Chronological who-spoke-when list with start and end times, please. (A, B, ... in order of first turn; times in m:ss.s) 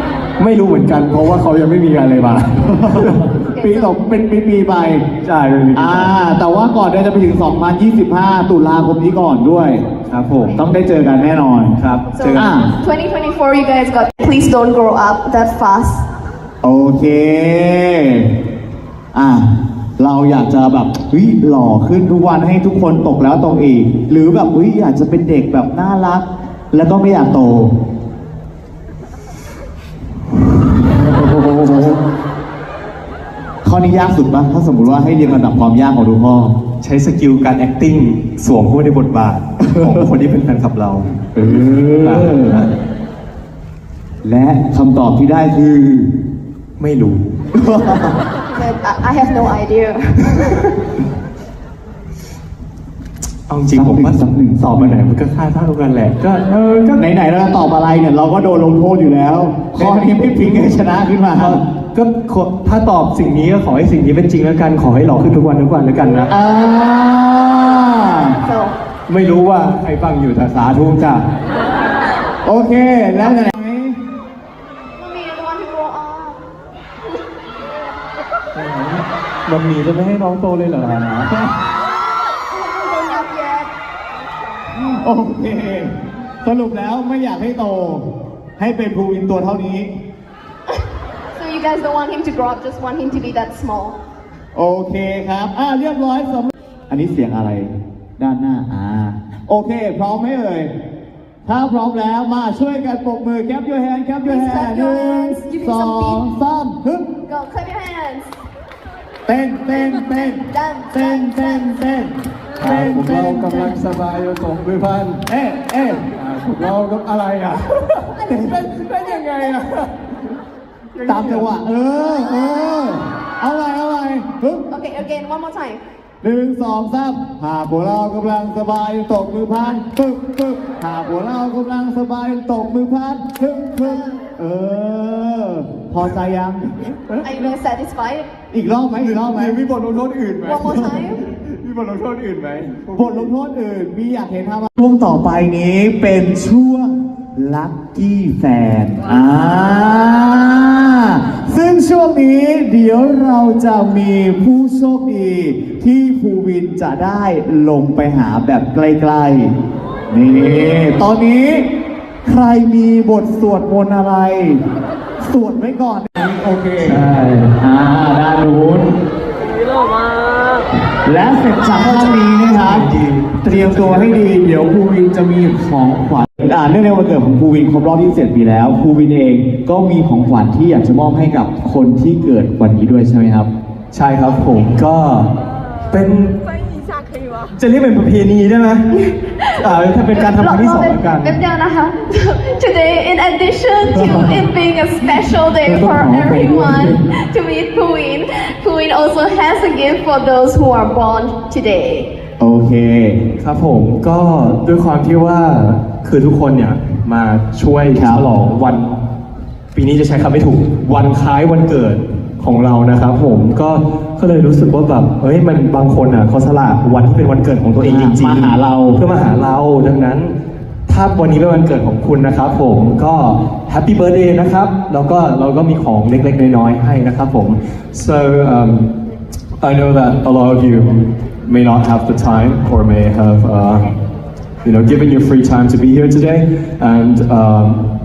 0:00.4-0:03.2 A
0:02.8-0:05.0 B
0:03.5-0:03.9 C
0:05.2-0:06.1 A
0:05.8-0:09.8 B
0:10.1-0:10.6 A
0:10.6-0:11.7 B
0:11.8-0:12.5 A
0:12.1-0:16.0 C
0:12.3-0:12.7 B
0:16.6-0:18.3 B
0:19.1-0:27.7 B
0:30.6-0:32.0 B
0:33.6-0:36.5 B
0:36.8-0:41.1 A
0:41.3-0:42.6 B
0:42.0-0:42.7 A
0:44.2-0:46.1 B
0:46.8-0:47.4 A
0:47.5-0:48.2 B
0:48.5-0:50.5 C
0:53.5-0:57.0 A
0:53.7-0:55.0 B
0:57.0-1:01.6 B
0:59.8-1:00.8 A
1:01.3-1:06.3 A
1:06.3-1:08.4 B
1:08.4-1:08.7 C
1:09.1-1:11.2 A
1:12.4-1:14.0 B
1:13.2-1:13.4 C
1:15.0-1:16.4 C
1:18.5-1:21.3 A
1:21.3-1:21.6 B
1:22.2-1:23.7 C
1:24.8-1:28.0 B
1:28.6-1:29.9 B
1:31.3-1:34.0 C
1:34.5-1:40.7 B
1:41.4-1:47.1 B
1:44.2-1:46.2 C
1:47.3-1:48.4 C
1:49.3-1:53.8 B
1:49.7-1:51.7 C
1:52.6-1:55.2 A
1:55.3-1:56.0 B
1:56.1-2:00.2 A
1:58.2-1:59.3 C
1:58.3-1:58.6 B
2:00.9-2:01.6 A
2:01.0-2:04.6 B
2:04.7-2:05.8 C
2:06.2-2:16.7 B
2:13.8-2:14.2 C
2:16.8-2:17.5 A
2:17.2-2:18.3 C
2:18.5-2:19.6 B
2:19.0-2:23.3 A
2:20.4-2:21.2 C
2:22.9-2:39.5 B
2:40.1-2:41.7 B
2:42.2-2:44.6 B
2:45.2-2:47.0 B
2:46.8-2:47.5 A
2:47.6-2:48.9 B
2:51.0-2:52.9 B
2:51.8-2:54.2 A
2:53.4-3:03.5 B
3:03.9-3:05.3 A
3:05.9-3:06.3 A
3:07.6-3:08.9 A
3:09.0-3:09.5 C
3:09.5-3:11.4 A
3:10.1-3:22.1 C
3:14.0-3:14.4 A
3:15.7-3:16.7 B
3:15.7-3:16.9 A
3:22.4-3:23.2 B
3:23.4-3:29.0 A
3:27.9-3:28.2 B
3:29.7-3:40.3 A
3:37.8-3:39.0 B
3:40.9-3:48.9 A
3:49.6-3:53.9 A
3:54.6-3:57.8 A